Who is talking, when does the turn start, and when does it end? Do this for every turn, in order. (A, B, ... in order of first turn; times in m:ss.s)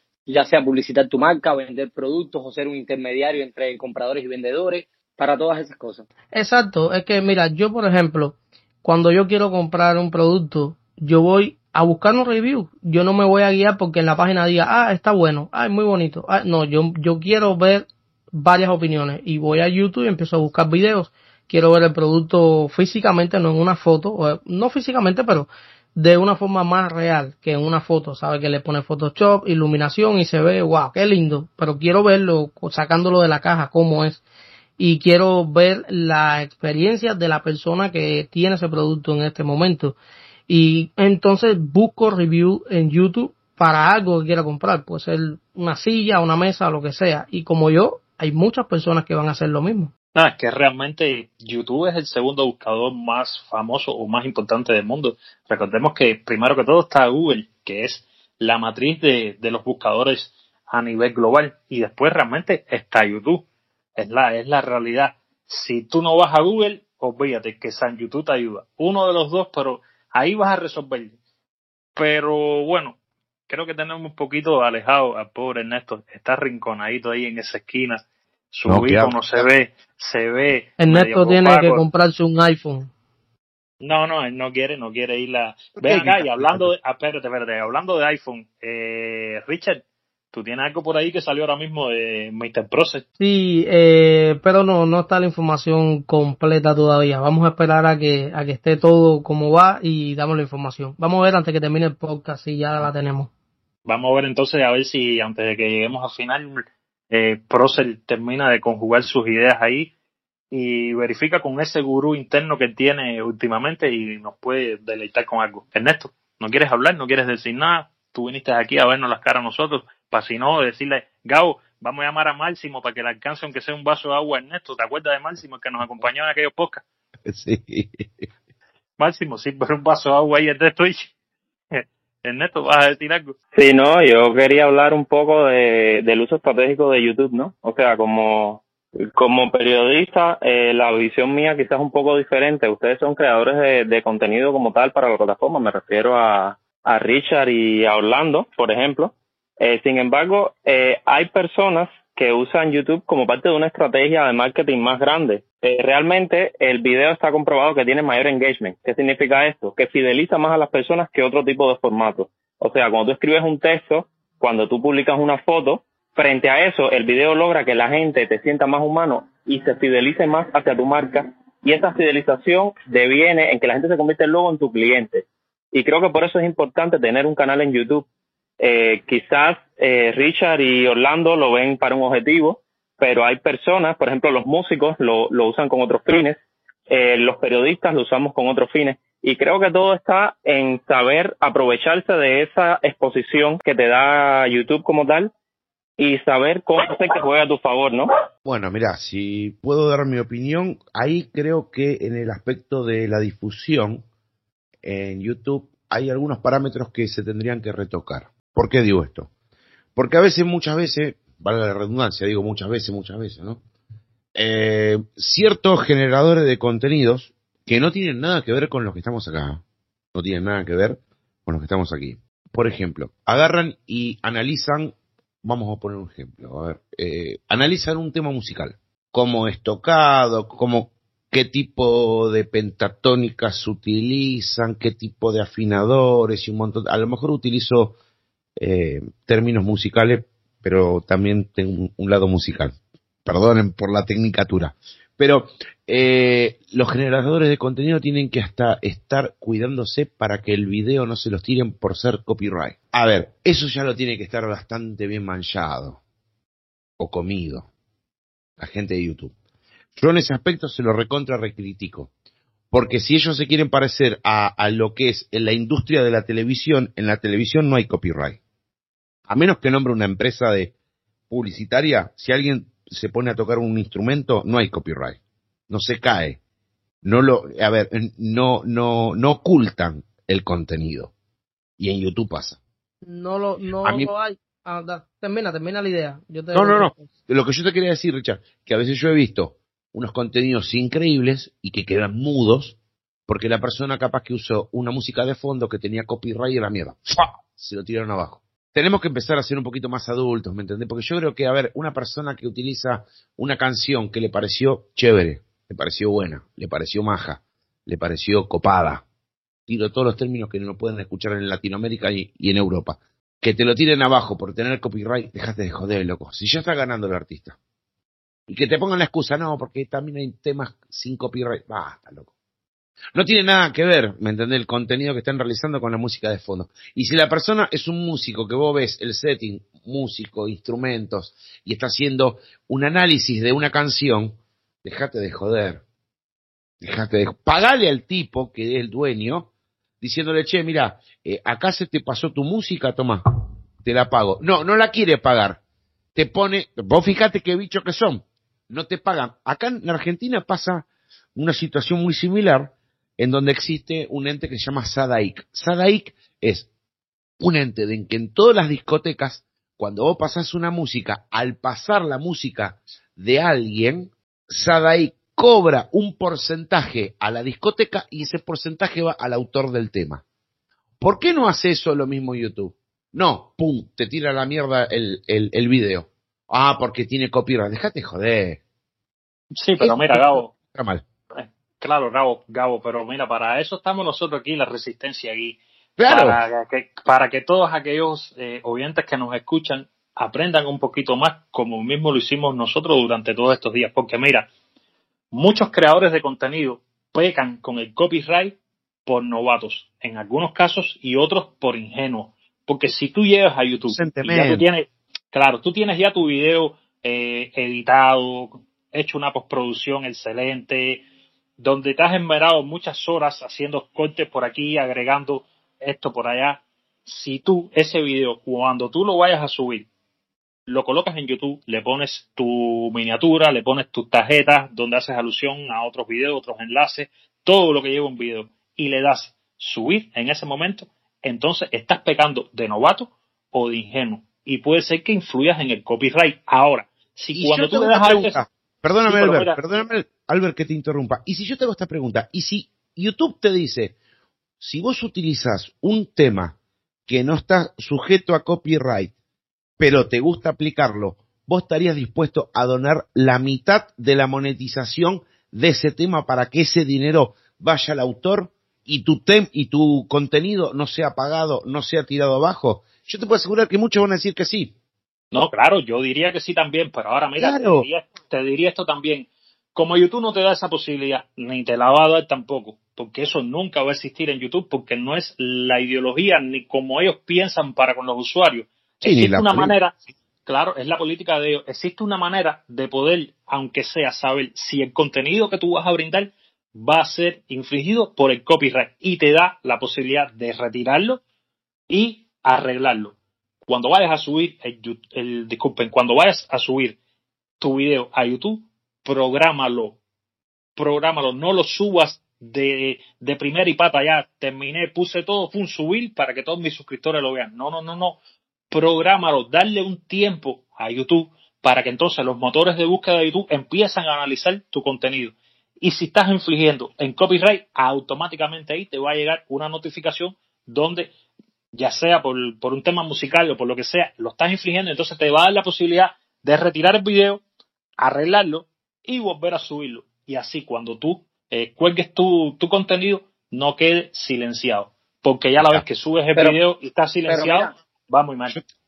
0:00.3-0:06.0 A
0:06.3-0:34.2 B
0:34.8-0:40.0 B
0:40.5-0:49.9 B
0:50.1-1:11.2 C
1:12.0-1:13.0 C
1:13.5-1:21.8 C
1:18.7-1:19.5 D
1:20.8-1:22.9 B
1:23.8-1:33.0 C
1:25.8-1:26.7 D
1:33.2-1:43.3 B
1:43.8-1:49.9 C
1:50.5-2:06.8 C
2:07.3-2:08.3 D
2:09.0-2:11.1 C
2:11.7-2:13.4 C
2:13.5-2:58.0 E
2:58.6-3:06.4 E
3:06.9-3:15.3 E
3:16.0-3:18.1 E
3:18.4-3:24.0 D
3:24.8-3:29.3 D
3:30.0-3:33.6 D
3:34.3-3:39.6 D
3:40.1-3:57.9 D
3:58.6-4:02.7 D
4:03.2-4:16.0 D
4:17.0-4:17.7 D
4:18.6-4:19.3 D
4:20.0-4:22.1 D
4:22.7-4:28.4 D
4:29.3-4:30.7 D
4:31.3-4:35.2 D
4:35.7-4:36.4 D
4:37.0-4:41.1 D
4:41.8-4:42.6 D
4:43.0-4:47.1 B
4:43.8-4:44.1 D
4:46.5-4:52.8 D
4:53.3-5:09.0 D
5:09.7-5:17.6 D
5:18.5-5:22.3 D
5:23.1-5:35.8 D
5:36.8-5:39.5 D
5:40.0-5:43.2 D
5:43.8-5:45.6 D
5:46.1-5:56.7 D
5:57.4-6:10.2 D
6:11.0-6:18.6 D
6:19.6-6:20.5 C
6:19.8-6:21.0 D
6:21.3-6:34.5 C
6:26.0-6:26.4 D
6:35.3-6:51.0 C
6:43.9-6:44.6 D
6:51.6-6:59.9 C
7:00.7-7:18.4 C
7:17.3-7:23.9 D
7:19.0-7:19.6 C
7:24.6-7:26.6 D
7:27.1-7:29.1 D
7:29.8-7:44.7 D
7:45.3-8:11.2 C
7:47.4-7:47.9 D
7:59.0-7:59.7 D
8:11.9-8:17.0 C
8:17.6-8:20.0 C
8:20.8-8:28.2 C
8:28.7-8:41.1 C
8:41.7-8:47.4 C
8:48.0-8:58.6 C
8:57.3-8:57.7 A